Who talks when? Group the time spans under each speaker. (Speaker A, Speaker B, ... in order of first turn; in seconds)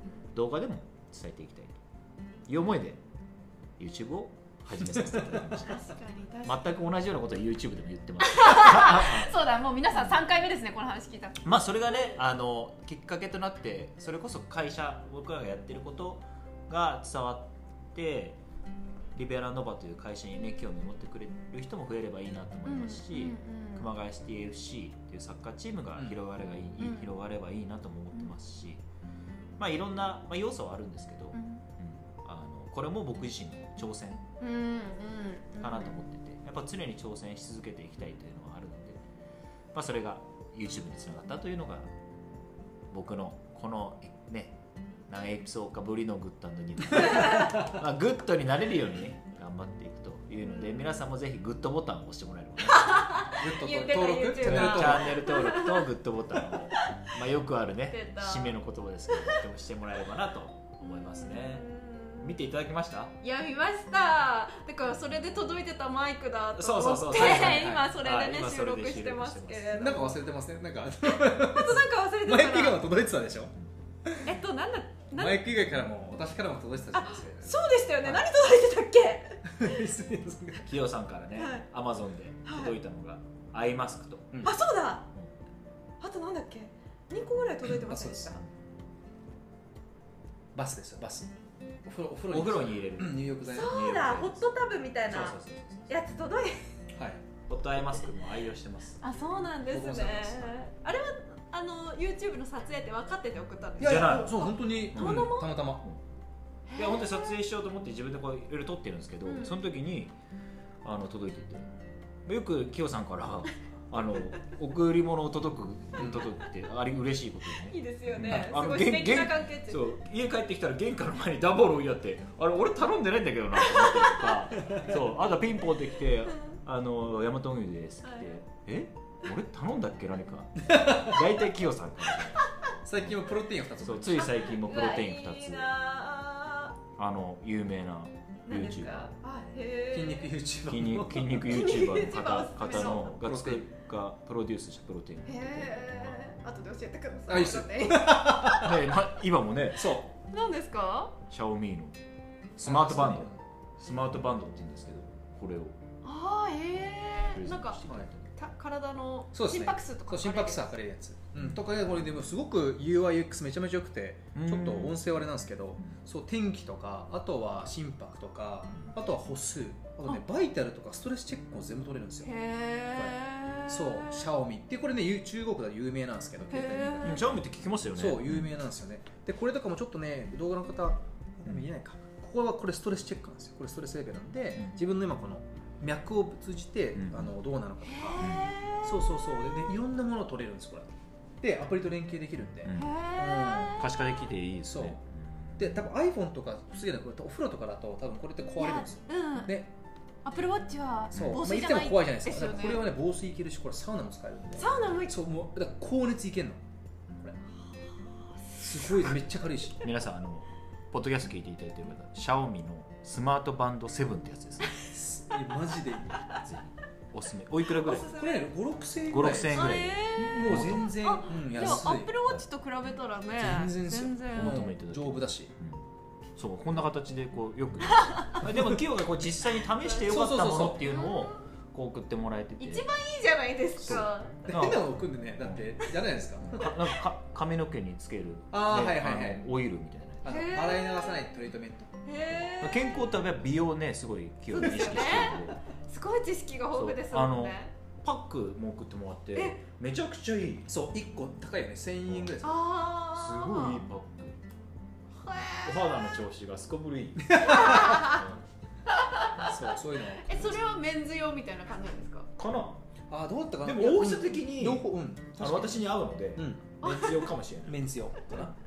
Speaker A: 0.3-1.8, 2.5-3.0, 3.8-5.8, 6.4-9.3, 9.9-10.2, 11.4-18.4, 19.1-28.8, 29.6-34.2, 35.6-39.0, 39.7-41.9, 42.9-53.1, 54.4-61.6, 62.2-63.1, 66.5-69.9, 80.6-84.4, 92.3-94.5, 95.1-95.9, 97.5-99.0, 103.8-106.0, 106.7-110.1, 110.8-111.7, 112.2-132.5, 133.8-135.7, 137.0-139.1, 140.7-146.2, 148.5-149.9, 151.3-152.0, 152.6-155.8, 157.3-158.3, 161.4-162.0, 164.3-165.1, 177.0-178.5, 187.0-187.3, 188.2-188.5, 192.6-192.9, 193.8-195.8, 201.1-201.4, 209.8-214.8, 216.4-218.1, 219.1-220.9, 221.5-222.4, 224.3-232.9, 233.8-234.9, 236.4-240.3, 242.6-245.6, 246.7-250.7, 252.1-252.3, 253.1-254.4, 255.6-258.4, 262.4-262.8, 263.6-268.5
Speaker B: 5.6-6.7, 8.2-12.1, 22.6-23.9, 26.8-27.1, 31.3-31.6, 34.4-36.0, 47.2-47.5, 50.5-50.9, 52.7-55.9, 56.7-57.1, 57.9-58.6, 59.1-59.4, 60.8-62.3, 63.2-70.2, 71.0-72.8, 74.2-75.4, 76.9-79.8, 81.4-81.7, 82.5-82.7, 84.4-85.1, 86.0-88.4, 93.5-96.7, 99.0-105.6, 106.7-107.3, 109.2-109.5, 117.6-120.0, 128.0-128.4, 134.2-136.8, 138.5-140.3, 141.4-143.1, 145.2-148.7, 150.2-151.2, 156.0-157.8, 158.3-160.7, 172.2-174.2, 176.5-177.2, 187.8-189.0, 192.7-194.0, 198.6-199.5, 200.2-202.9, 204.6-205.1, 217.8-218.5, 219.5-224.7, 227.9-228.4, 229.8-230.1, 230.8-231.4, 232.6-234.7, 240.2-241.1, 242.1-243.0, 244.5-247.7, 252.4-253.8, 255.2-255.9, 257.4-258.2, 258.9-262.3, 266.8-267.3
Speaker C: 53.4-55.2, 67.1-67.9, 69.8-73.5, 75.1-78.2, 79.5-80.7, 87.7-88.3, 90.5-91.3, 91.8-93.8, 97.0-97.2, 99.7-100.5, 103.8-105.8, 116.0-116.3, 130.6-131.2, 132.8-134.4, 139.9-141.4, 142.7-143.7, 147.3-148.8, 149.8-150.1, 152.6-153.4, 159.3-172.3, 173.0-177.3, 177.9-188.3, 188.8-190.9, 191.4-193.8, 194.7-195.0, 195.6-199.7, 201.1-206.6, 208.6-209.8, 214.9-216.2, 218.0-222.1, 223.3-225.5, 230.0-230.9, 233.9-236.7, 238.5-239.4, 240.2-242.1, 250.7-252.6, 257.3-257.9, 259.4-260.6, 263.1-266.7, 267.6-268.5